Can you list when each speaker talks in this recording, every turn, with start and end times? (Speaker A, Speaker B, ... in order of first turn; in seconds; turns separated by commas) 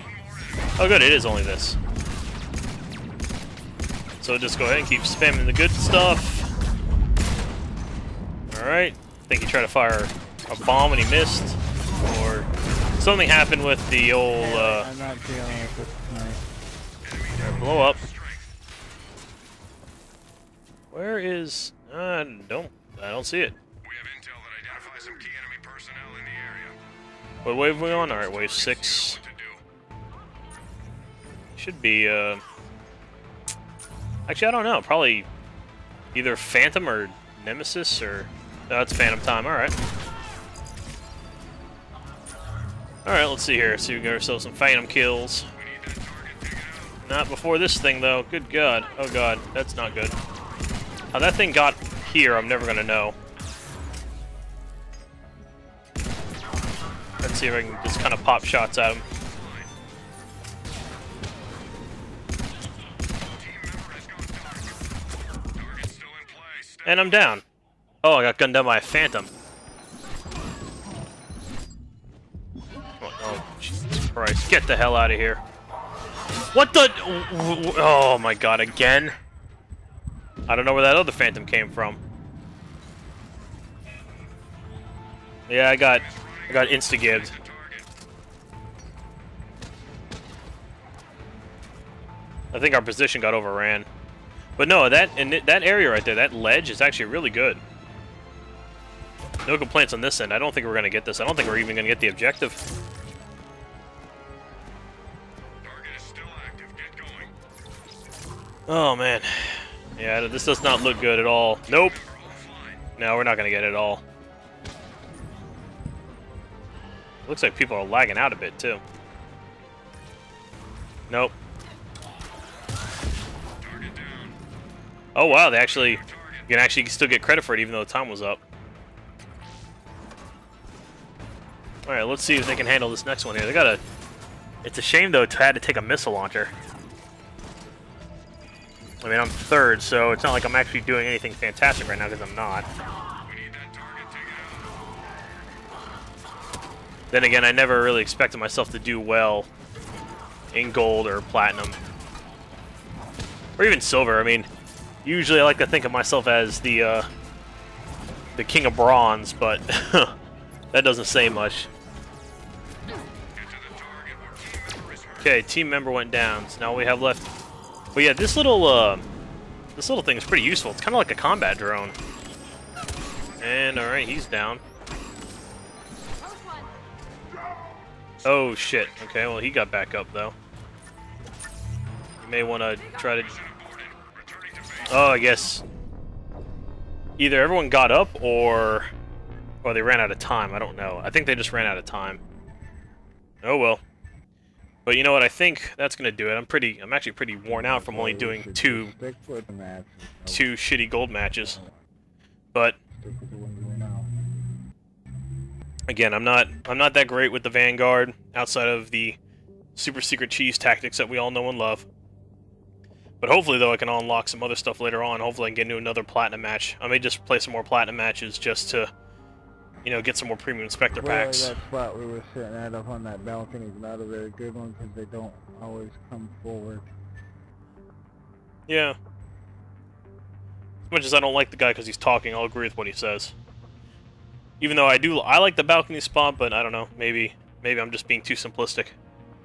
Speaker A: 0.8-1.8, Speaker A: 4.2-6.5, Speaker A: 8.5-12.5, Speaker A: 13.0-14.9, Speaker B: 14.4-16.4, Speaker A: 17.4-18.0, Speaker A: 20.9-23.6, Speaker C: 24.0-26.6, Speaker A: 27.4-29.2, Speaker A: 31.6-32.4, Speaker A: 34.3-35.3, Speaker A: 36.1-39.8, Speaker A: 43.0-45.5, Speaker A: 47.0-50.1, Speaker A: 51.1-53.2, Speaker A: 57.2-59.0, Speaker A: 66.8-67.4, Speaker A: 68.0-69.3, Speaker A: 73.0-75.4, Speaker A: 76.5-79.2, Speaker A: 80.5-82.0, Speaker A: 85.5-87.4, Speaker A: 92.5-93.9, Speaker A: 94.6-97.6, Speaker A: 99.5-102.6, Speaker C: 105.7-107.3, Speaker A: 108.7-112.0, Speaker A: 113.0-114.0, Speaker A: 117.3-118.8, Speaker A: 121.1-121.3, Speaker A: 125.2-128.4, Speaker A: 131.9-133.8, Speaker A: 134.6-136.5, Speaker A: 139.0-142.7, Speaker C: 143.8-144.2, Speaker A: 147.1-149.5, Speaker A: 150.5-151.8, Speaker A: 153.6-154.5, Speaker A: 155.0-157.1, Speaker A: 158.4-160.1, Speaker A: 160.7-161.7, Speaker A: 165.2-167.3, Speaker A: 167.9-169.1, Speaker A: 169.8-172.0, Speaker A: 173.4-174.6, Speaker A: 178.2-180.3, Speaker A: 182.2-183.4, Speaker A: 184.9-185.6, Speaker A: 187.2-188.9, Speaker A: 189.6-192.2, Speaker A: 193.4-193.8, Speaker A: 194.9-198.9, Speaker B: 197.5-200.5, Speaker A: 200.3-201.6, Speaker B: 201.3-201.9, Speaker B: 202.9-204.2, Speaker A: 205.9-209.2, Speaker A: 209.8-211.9, Speaker A: 213.2-218.9, Speaker A: 219.8-221.6, Speaker B: 221.0-226.9, Speaker A: 228.7-229.0, Speaker A: 230.9-233.3, Speaker A: 234.6-239.0